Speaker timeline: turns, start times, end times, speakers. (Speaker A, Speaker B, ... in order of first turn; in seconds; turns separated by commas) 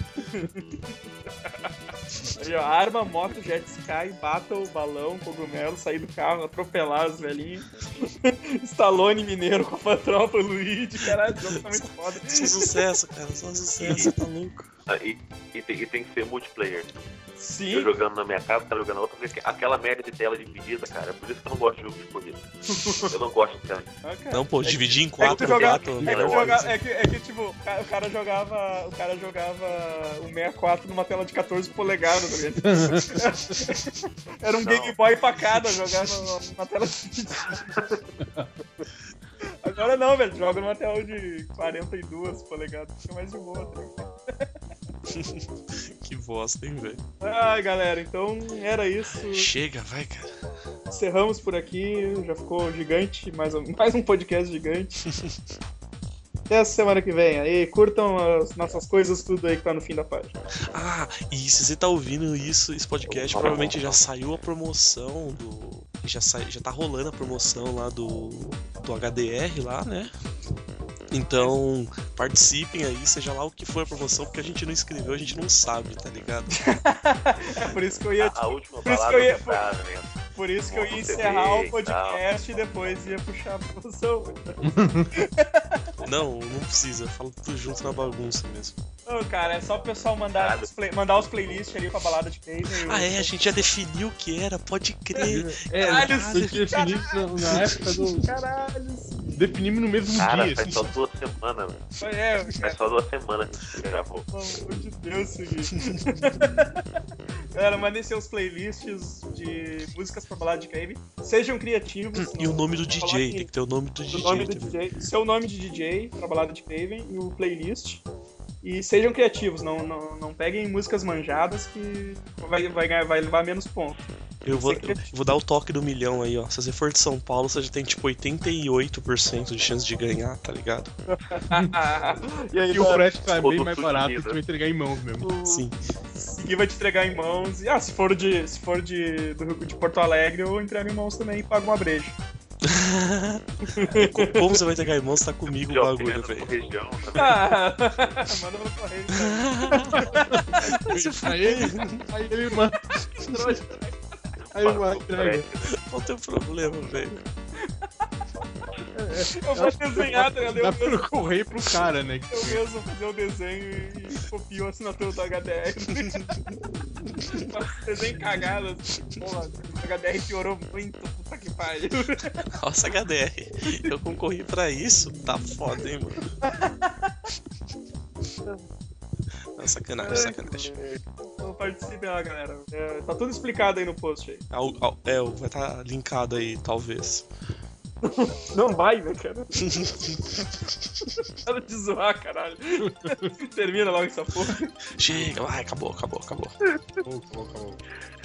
Speaker A: 0.2-0.9, Speaker A: 2.4-12.8, Speaker B: 11.7-14.7, Speaker A: 13.8-14.1, Speaker C: 14.9-16.9, Speaker A: 17.4-17.9, Speaker C: 17.7-22.4, Speaker A: 22.7-23.1, Speaker C: 23.0-23.9, Speaker A: 24.0-38.0, Speaker B: 24.3-26.7, Speaker C: 25.2-26.6, Speaker D: 32.6-33.4, Speaker C: 34.6-35.0, Speaker A: 39.6-44.5, Speaker B: 45.1-47.0, Speaker A: 47.2-49.5, Speaker B: 49.2-50.3, Speaker A: 50.9-55.0, Speaker B: 55.0-55.4, Speaker A: 56.5-60.4, Speaker B: 60.7-70.1, Speaker C: 63.2-64.0, Speaker B: 71.1-76.6, Speaker A: 71.3-71.6, Speaker A: 76.5-79.7, Speaker C: 78.2-80.1, Speaker A: 80.3-84.6, Speaker C: 80.7-82.2, Speaker D: 84.6-85.1, Speaker A: 85.1-85.9, Speaker B: 86.0-88.7, Speaker A: 89.0-93.7, Speaker C: 90.3-90.7, Speaker B: 92.7-96.7, Speaker A: 95.2-99.6, Speaker D: 95.2-98.3, Speaker B: 97.5-97.8, Speaker D: 99.3-100.7, Speaker C: 100.2-101.8, Speaker A: 102.0-102.8, Speaker C: 102.6-104.3, Speaker A: 104.3-106.8, Speaker A: 107.5-113.5, Speaker B: 112.2-114.9, Speaker A: 114.1-118.0, Speaker A: 118.6-125.0, Speaker B: 124.4-130.9, Speaker A: 131.3-133.0, Speaker D: 132.7-135.3, Speaker C: 133.3-134.4, Speaker A: 135.2-142.2, Speaker B: 135.4-135.8, Speaker B: 142.6-146.7, Speaker A: 143.7-144.6, Speaker C: 145.7-147.4, Speaker A: 147.1-150.7, Speaker B: 149.2-152.0, Speaker D: 149.9-152.8, Speaker A: 152.9-154.0, Speaker D: 154.5-155.4, Speaker C: 154.5-155.8, Speaker B: 155.7-157.2, Speaker D: 158.9-162.6, Speaker A: 159.3-161.3, Speaker A: 162.3-166.6, Speaker A: 167.3-172.4, Speaker B: 172.6-176.3, Speaker A: 176.4-177.1, Speaker B: 179.6-180.7, Speaker A: 180.0-184.4, Speaker B: 184.5-187.2, Speaker A: 188.0-190.0, Speaker B: 189.6-190.4, Speaker A: 191.3-194.7, Speaker D: 192.9-193.3, Speaker B: 194.9-196.5, Speaker D: 197.0-197.8